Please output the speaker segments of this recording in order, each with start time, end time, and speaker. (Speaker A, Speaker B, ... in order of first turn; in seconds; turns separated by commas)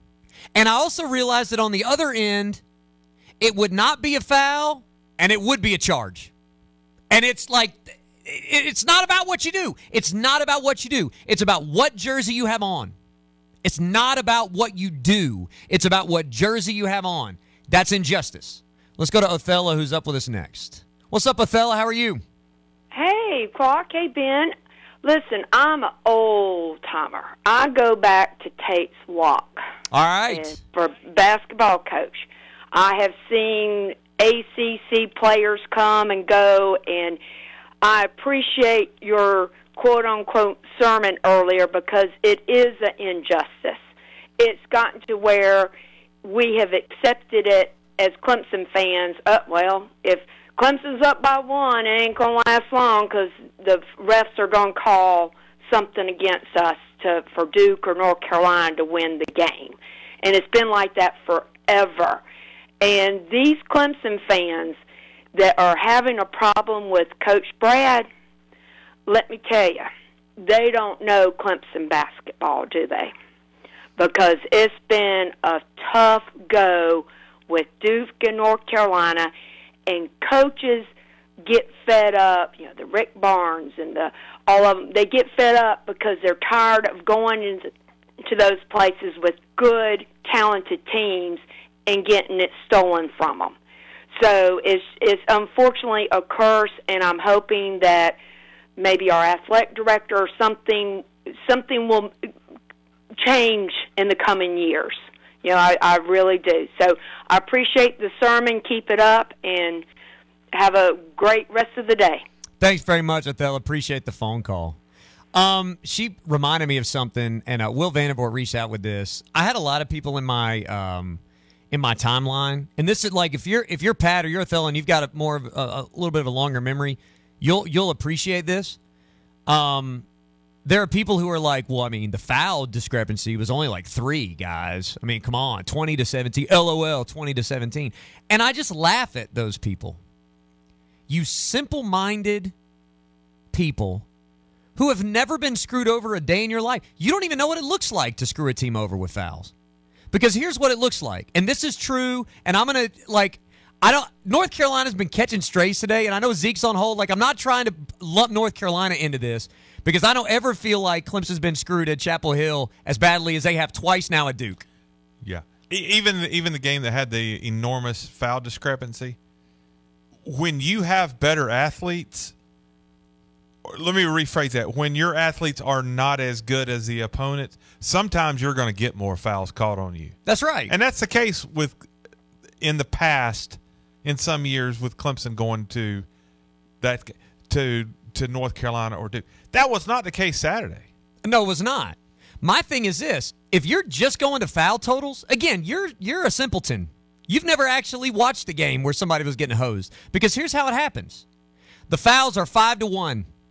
Speaker A: 0.6-2.6, Speaker A: 3.4-6.3, Speaker A: 7.1-12.9, Speaker A: 13.6-22.2, Speaker B: 22.9-29.6, Speaker A: 29.9-30.6, Speaker B: 30.3-37.2, Speaker B: 37.8-43.8, Speaker B: 44.4-45.7, Speaker B: 46.2-62.2, Speaker B: 62.8-64.8, Speaker B: 65.3-68.1, Speaker B: 69.1-69.9, Speaker B: 70.4-73.1, Speaker B: 74.0-79.3, Speaker B: 79.9-80.9, Speaker B: 81.5-87.7, Speaker B: 88.3-93.5, Speaker B: 94.2-98.2, Speaker B: 98.8-102.1, Speaker B: 103.2-109.8, Speaker B: 110.5-112.2, Speaker A: 112.6-114.8, Speaker A: 115.3-121.2, Speaker A: 121.7-128.8, Speaker A: 129.5-130.1, Speaker A: 130.7-140.0, Speaker A: 141.1-142.5, Speaker A: 143.5-144.1, Speaker A: 144.8-149.5, Speaker A: 150.1-164.7, Speaker C: 165.2-169.2, Speaker C: 170.2-172.3, Speaker C: 173.7-180.2, Speaker A: 180.3-180.7, Speaker C: 180.7-181.8, Speaker C: 182.6-186.1, Speaker C: 186.8-190.9, Speaker A: 191.2-201.2, Speaker A: 201.9-203.3